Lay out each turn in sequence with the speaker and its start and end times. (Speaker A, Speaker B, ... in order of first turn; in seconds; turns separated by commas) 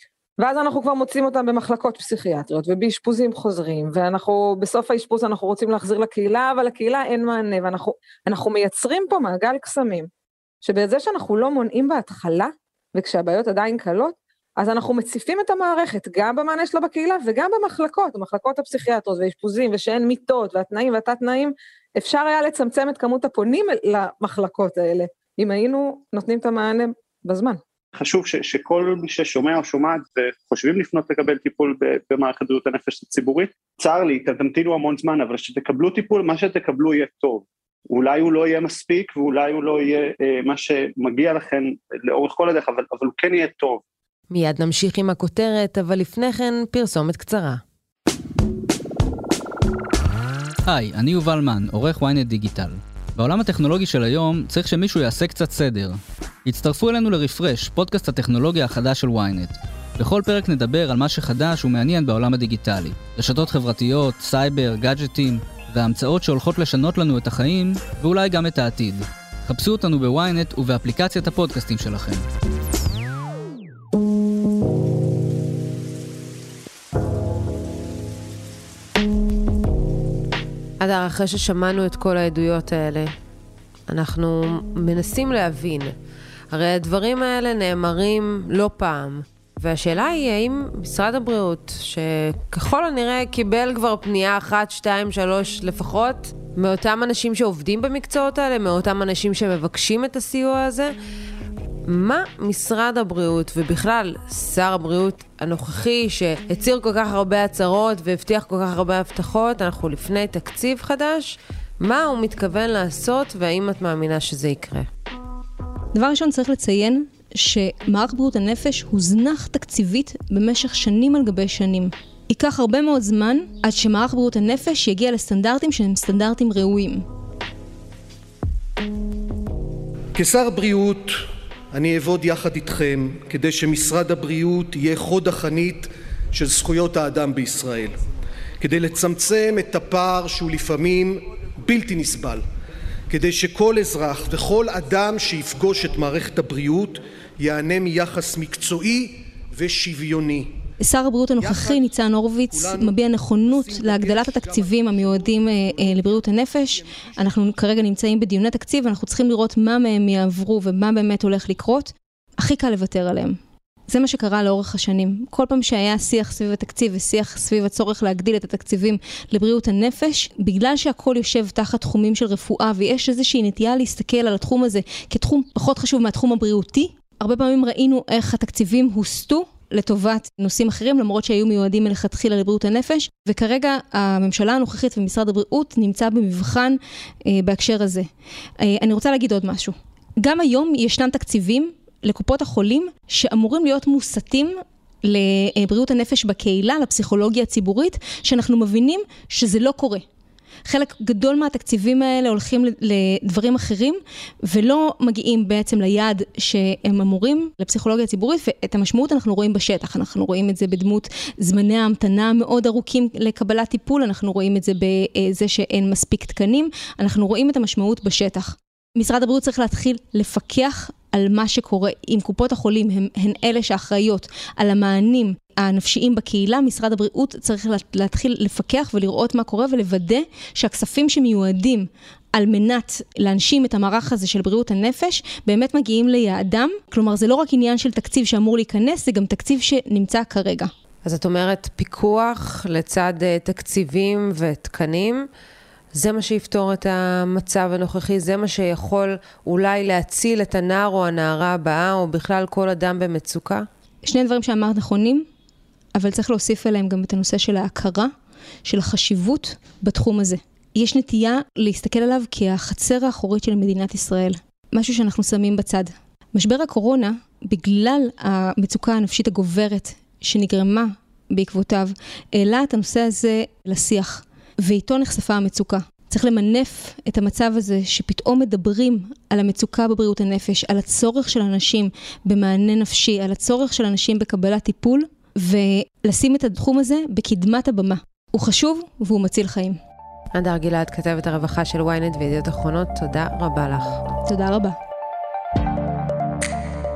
Speaker A: 0.4-10.1, Speaker A: 10.6-27.6, Speaker B: 27.9-43.8, Speaker C: 44.3-47.6, Speaker D: 50.7-72.2, Speaker C: 80.8-83.1, Speaker C: 83.9-85.9, Speaker C: 86.5-100.9, Speaker C: 101.8-114.9, Speaker E: 115.9-127.0, Speaker F: 130.1-138.0, Speaker F: 138.6-142.4, Speaker F: 143.1-150.6, Speaker E: 150.8-188.1, Speaker F: 151.4-151.9, Speaker F: 152.5-157.4, Speaker E: 188.6-200.0, Speaker E: 200.7-240.7, Speaker C: 241.0-245.3, Speaker C: 245.9-253.7, Speaker E: 254.0-255.2, Speaker E: 255.9-258.1, Speaker E: 258.6-289.8, Speaker C: 290.3-294.0, Speaker E: 294.2-294.8